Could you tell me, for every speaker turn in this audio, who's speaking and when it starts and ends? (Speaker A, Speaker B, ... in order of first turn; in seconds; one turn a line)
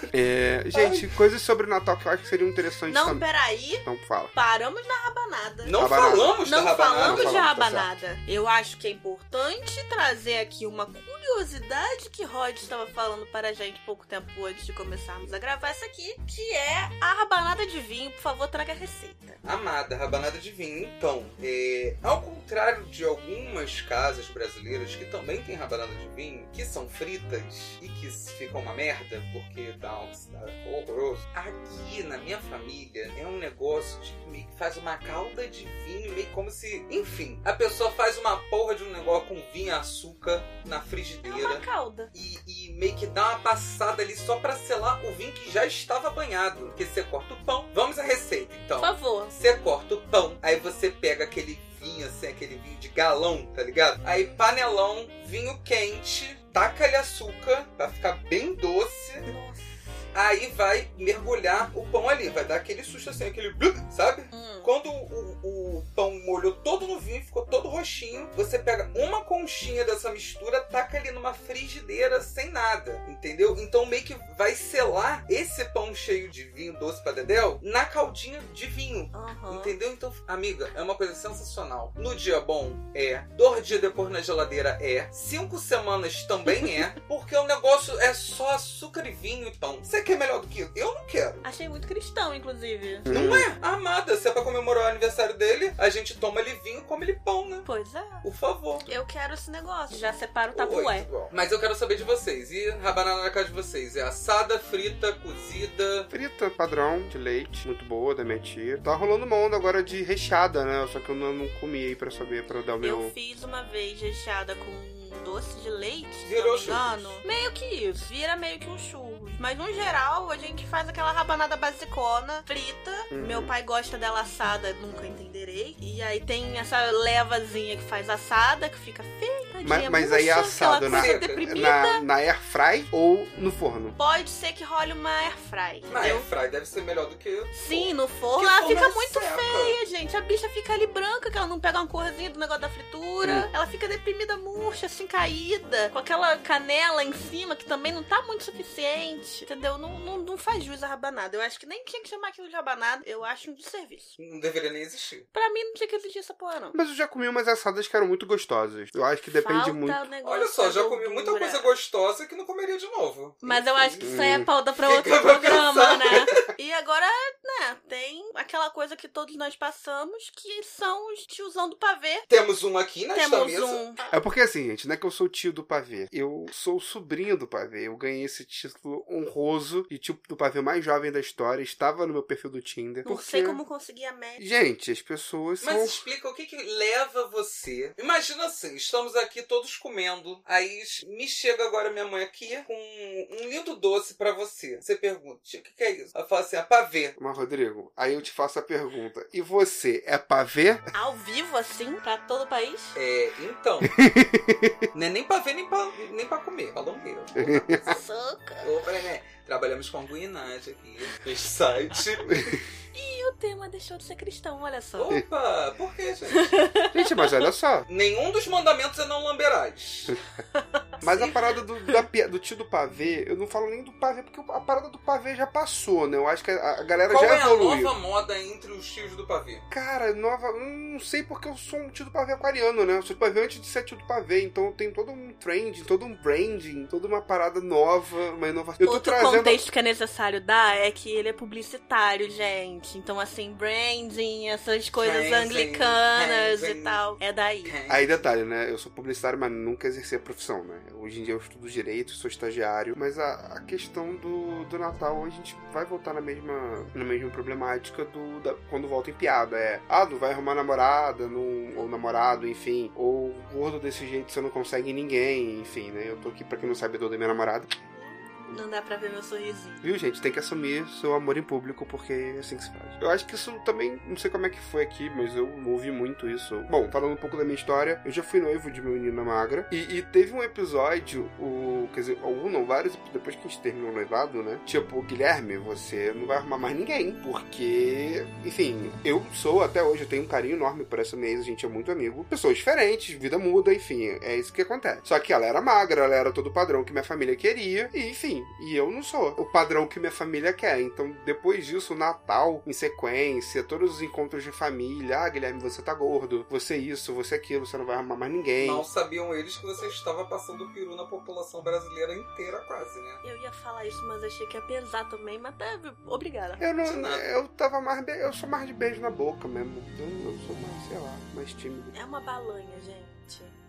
Speaker A: 0.1-3.2
Speaker B: 0.7-1.1
Speaker C: 2.9-19.4
Speaker A: 3.8-4.3
Speaker B: 5.6-7.5
Speaker A: 5.8-6.4
Speaker A: 7.0-7.9
Speaker B: 19.4-59.3
Speaker C: 41.2-42.1
Speaker C: 48.8-49.4
Speaker C: 59.3-59.8
Speaker B: 60.1-91.4
Speaker C: 64.3-64.7
Speaker C: 79.1-79.7
Speaker C: 91.4-93.1
Speaker A: 93.0-93.5
Speaker B: 93.1-97.7
Speaker C: 97.7-98.2
Speaker B: 98.2-98.9
Speaker C: 98.9-101.1
Speaker B: 100.5-106.1
Speaker A: 106.1-113.1
Speaker C: 112.8-132.0
Speaker B: 116.2-117.2
Speaker A: 123.1-123.5
Speaker A: 129.6-133.9
Speaker B: 130.9-131.7
Speaker C: 134.0-136.2
Speaker B: 135.9-139.8
Speaker C: 137.5-154.1
Speaker B: 154.2-155.3
Speaker C: 155.3-156.8
Speaker A: 156.7-160.0
Speaker C: 159.3-161.7
Speaker B: 160.2-164.2
Speaker C: 163.4-172.3
Speaker A: 164.0-164.5
Speaker B: 164.8-166.4
Speaker B: 172.3-173.8
Speaker C: 173.1-174.1
Speaker A: 174.1-183.6
Speaker C: 183.0-184.4
Speaker A: 184.4-186.0
Speaker B: 185.6-197.1
Speaker A: 197.2-200.9
Speaker C: 200.9-203.0
Speaker B: 202.9-204.0
Speaker A: 203.8-204.8
Speaker B: 204.9-208.0
Speaker A: 207.3-208.0
Speaker C: 207.9-208.8
Speaker B: 208.6-212.6
Speaker A: 212.2-212.6
Speaker C: 212.9-215.2
Speaker B: 215.0-216.6
Speaker C: 216.3-217.4
Speaker A: 216.9-217.9
Speaker B: 217.9-220.2
Speaker C: 220.5-221.3
Speaker A: 221.0-227.9
Speaker B: 227.1-229.6
Speaker A: 229.7-239.6
Speaker C: 238.8-247.7
Speaker B: 245.0-247.0
Speaker B: 247.6-248.2
Speaker A: 247.9-267.7
Speaker C: 267.9-269.8
Speaker A: 269.8-308.9
Speaker B: 308.6-313.2
Speaker C: 313.2-316.7
Speaker A: 316.6-321.9
Speaker B: 316.8-317.3
Speaker C: 321.9-323.5